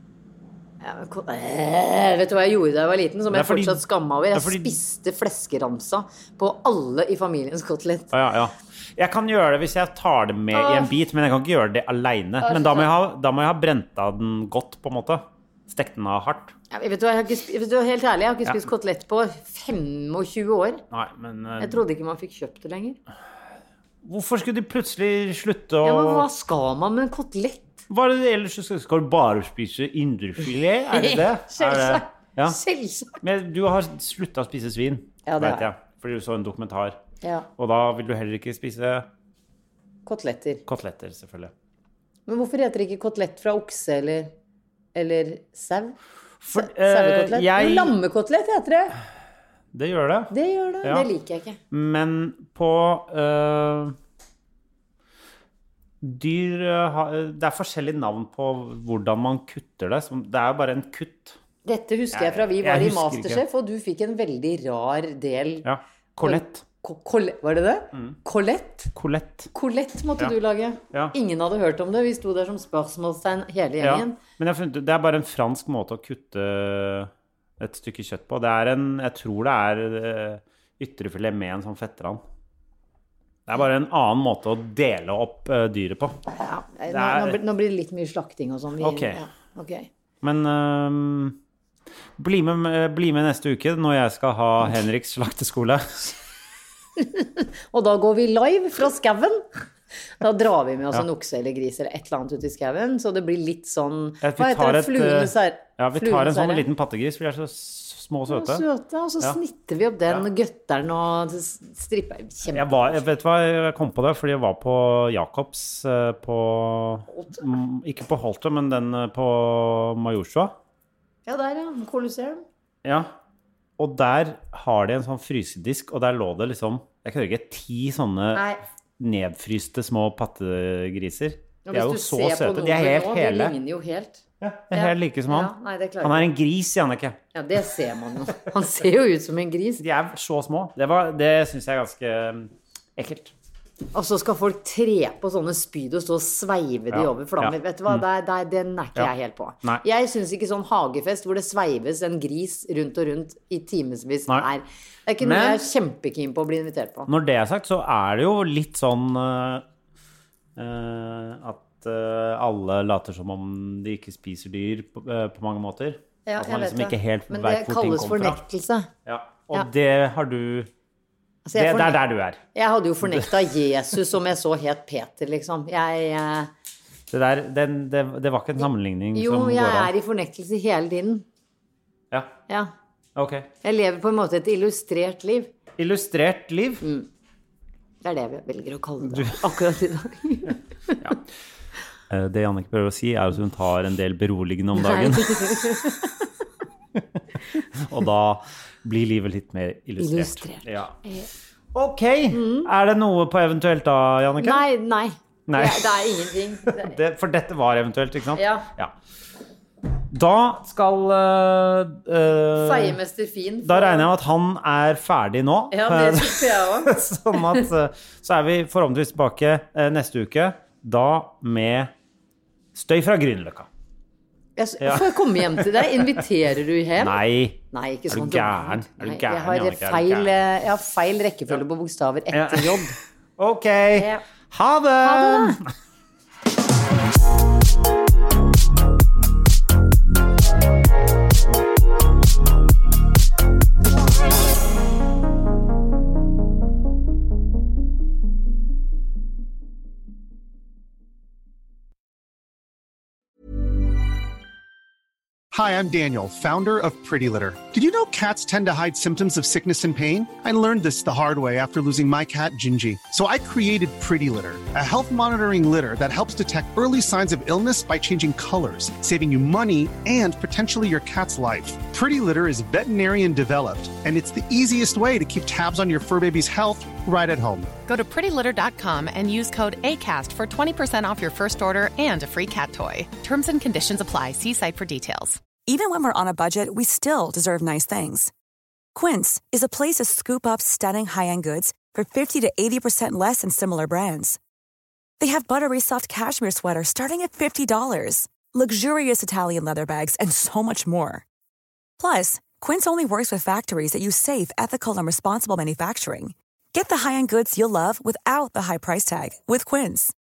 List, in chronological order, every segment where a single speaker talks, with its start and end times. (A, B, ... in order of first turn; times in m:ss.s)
0:00.8-0:08.1 A
0:03.3-0:03.8 B
0:04.3-0:04.7 B
0:08.1-0:16.6 B
0:10.5-0:10.9 A
0:12.4-0:12.9 A
0:16.7-0:20.8 A
0:20.9-0:21.8 B
0:21.6-0:23.0 A
0:24.0-0:26.3 B
0:25.8-0:27.7 A
0:27.9-0:32.6 B
0:30.9-0:33.2 A
0:33.2-0:37.0 B
0:35.3-0:35.7 A
0:37.6-0:39.1 B
0:40.0-0:40.6 A
0:40.7-0:41.5 B
0:42.3-0:44.3 A
0:45.0-0:46.0 A
0:46.4-0:48.0 B
0:46.5-0:49.0 A
0:49.7-0:51.1 B
0:50.3-0:51.6 A
0:51.7-0:54.0 B
0:56.0-1:01.4 B
1:01.6-1:05.7 A
1:02.1-1:03.4 B
1:05.6-1:06.6 B
1:06.2-1:08.9 A
1:09.0-1:09.5 B
1:09.5-1:14.2 A
1:13.8-1:22.2 B
1:23.5-1:26.2 B
1:26.3-1:29.9 A
1:26.9-1:27.4 B
1:28.8-1:29.2 B
1:30.2-1:31.4 B
1:32.2-1:36.2 B
1:37.0-1:39.4 A
1:40.2-1:46.7 A
1:44.2-1:48.6 B
1:48.3-1:52.7 A
1:52.5-2:00.6 B
1:57.1-1:57.5 A
2:01.3-2:02.4 A
2:02.8-2:03.1 B
2:03.8-2:08.4 B
2:08.3-2:08.6 A
2:09.0-2:13.6 B
2:11.7-2:16.3 A
2:14.4-2:17.2 B
2:17.3-2:19.8 A
2:19.8-2:23.3 B
2:23.9-2:37.1 A
2:26.9-2:28.0 B
2:35.2-2:35.6 B
2:37.1-2:39.6 B
2:40.6-2:48.4 B
2:46.3-2:48.9 A
2:49.0-2:50.7 B
2:51.4-2:52.0 A
2:51.6-2:52.4 B
2:52.5-2:56.5 A
2:57.1-2:59.9 B
2:59.1-3:01.2 A
3:03.2-3:03.5 B
3:03.6-3:05.5 A
3:05.8-3:06.8 B
3:06.8-3:07.1 A
3:08.0-3:11.0 A
3:09.0-3:09.4 B
3:12.1-3:15.8 B
3:14.8-3:16.2 A
3:17.6-3:21.0 B
3:20.0-3:21.3 A
3:21.7-3:24.6 B
3:22.3-3:22.7 A
3:24.4-3:27.0 A
3:25.5-3:26.0 B
3:26.7-3:28.9 B
3:28.4-3:28.7 A
3:30.1-3:33.0 B
3:32.6-3:34.1 A
3:33.6-3:41.9 B
3:35.7-3:37.7 A
3:42.7-3:43.7 B
3:44.6-3:47.2 A
3:44.8-3:46.0 B
3:47.0-3:50.3 B
3:47.7-3:53.0 A
3:52.3-3:55.7 B
3:54.0-3:54.2 A
3:55.0-3:55.6 A
4:15.5-4:37.7 C
4:37.9-4:45.4 D
4:45.7-4:48.3 E
4:49.0-4:54.4 E
4:55.2-5:01.2 E
5:02.0-5:10.1 E